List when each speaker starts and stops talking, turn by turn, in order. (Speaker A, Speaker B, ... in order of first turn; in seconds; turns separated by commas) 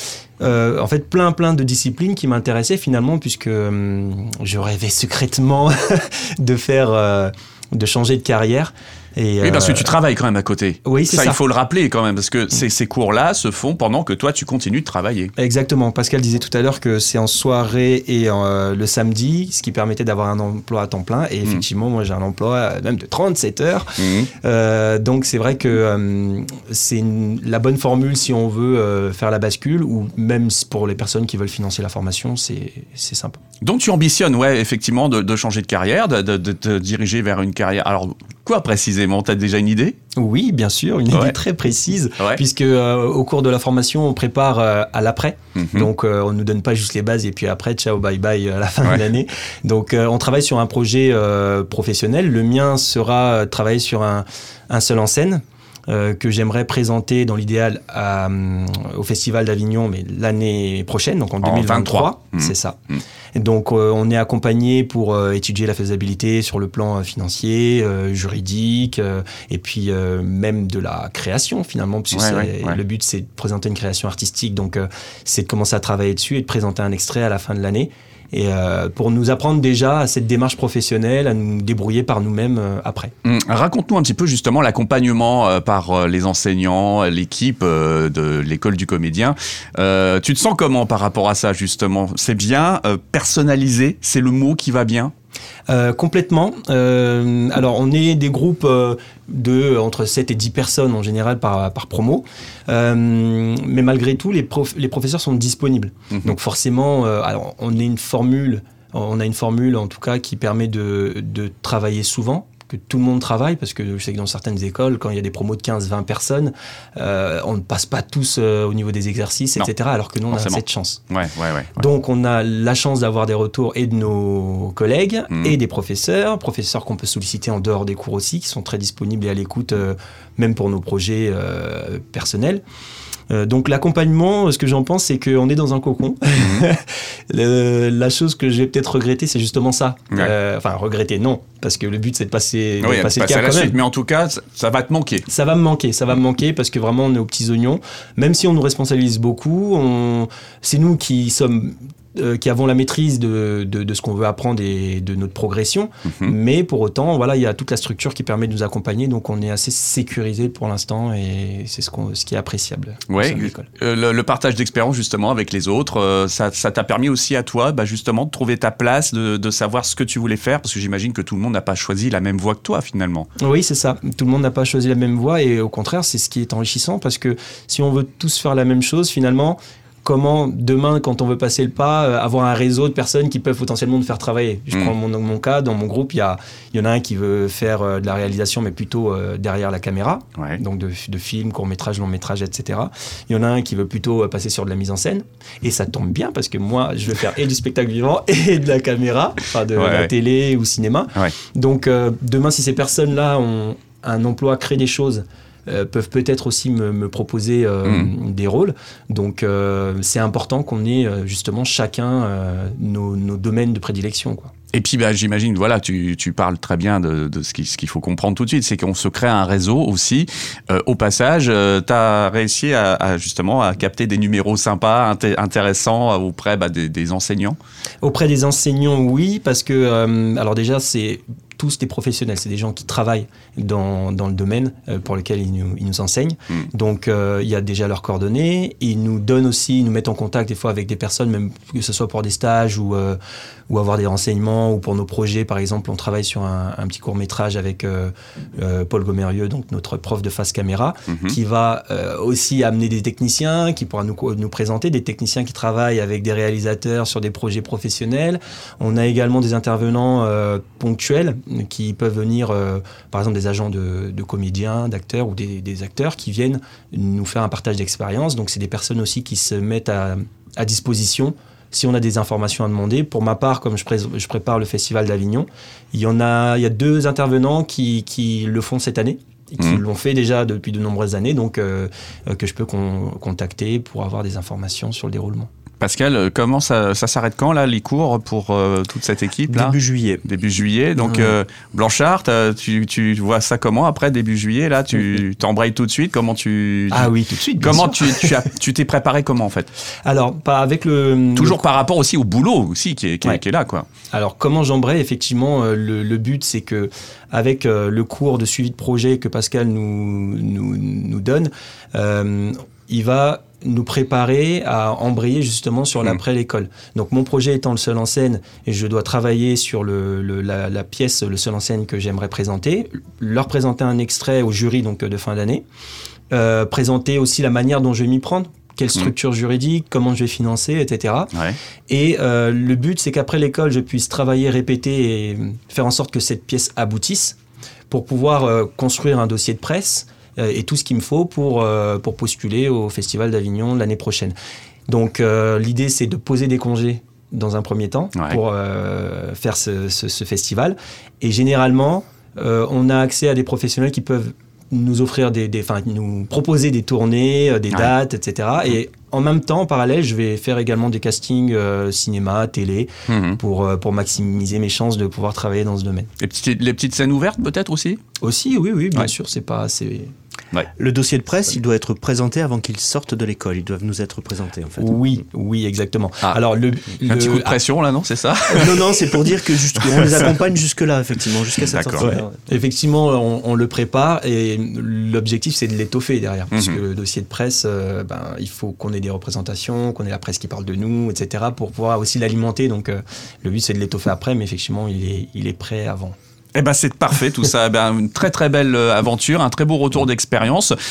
Speaker A: 0.4-10.0, Speaker B: 9.4-15.3, Speaker A: 10.8-11.4, Speaker A: 15.4-33.4, Speaker B: 24.0-24.3, Speaker B: 33.6-40.0, Speaker A: 40.1-62.8, Speaker B: 45.5-45.9, Speaker B: 61.4-63.0, Speaker A: 63.3-83.1, Speaker B: 72.1-72.8, Speaker B: 83.2-95.1, Speaker A: 95.7-121.0, Speaker B: 120.3-121.8, Speaker A: 121.8-132.6, Speaker A: 133.3-143.8, Speaker B: 136.3-136.7, Speaker B: 142.8-145.3, Speaker A: 145.3-163.7, Speaker B: 156.1-156.3, Speaker B: 163.1-173.3, Speaker A: 173.4-214.5, Speaker B: 199.8-200.1, Speaker B: 214.7-227.6, Speaker A: 228.0-285.5, Speaker B: 251.1-251.4, Speaker B: 285.8-299.7, Speaker C: 289.5-290.2, Speaker A: 296.9-298.4, Speaker A: 300.0-301.6, Speaker B: 301.4-303.9, Speaker A: 304.1-325.6, Speaker A: 326.3-331.3, Speaker A: 331.9-337.4, Speaker A: 337.9-344.3, Speaker A: 344.9-366.1, Speaker B: 363.1-363.4, Speaker B: 366.2-368.0, Speaker A: 368.2-370.1, Speaker C: 370.8-375.0, Speaker A: 374.8-377.6, Speaker B: 377.1-379.1, Speaker C: 378.5-382.2, Speaker B: 379.8-380.3, Speaker B: 381.6-382.1, Speaker A: 382.0-396.2, Speaker B: 386.5-386.8, Speaker B: 396.6-400.7